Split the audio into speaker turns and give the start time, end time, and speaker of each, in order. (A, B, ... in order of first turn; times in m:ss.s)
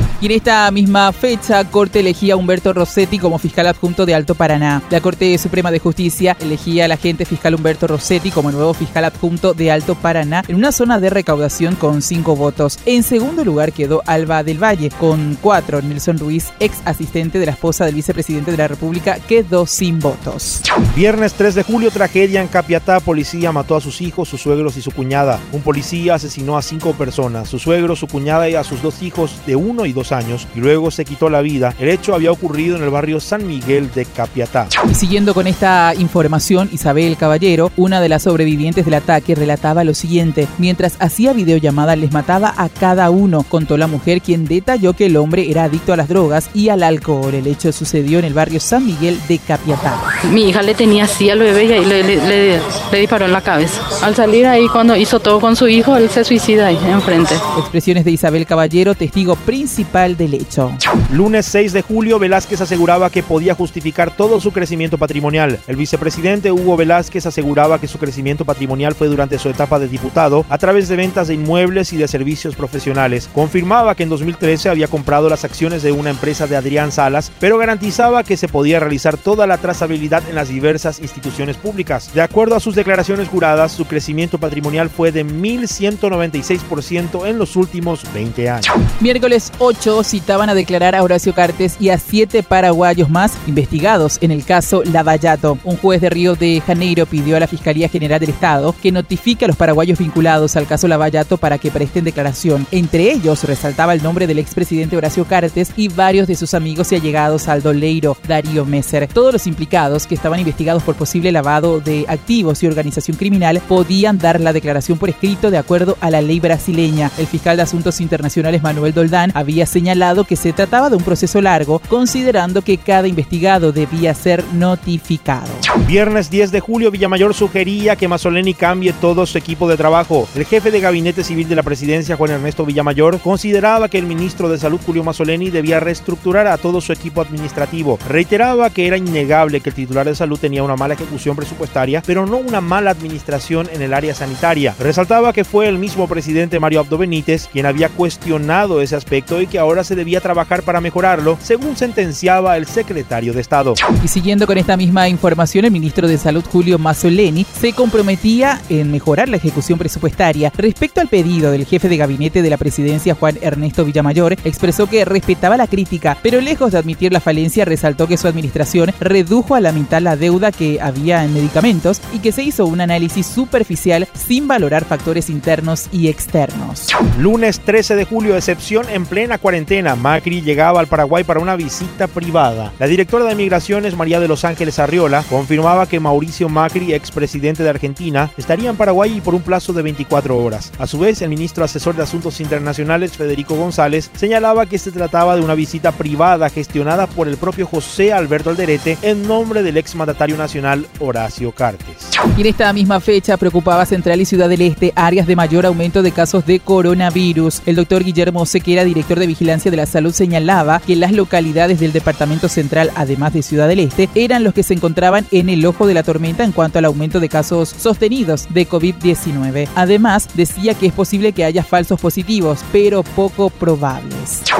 0:00.2-0:20.6 A
0:20.9-0:34.7 B
0:34.9-0:50.0 A
0:50.2-0:57.4 C
0:57.5-1:00.8 A
1:01.1-1:28.7 B
1:29.0-2:05.7 A
2:05.8-2:33.8 B
2:34.0-2:56.9 A
2:57.1-3:22.1 B
3:22.3-3:44.4 A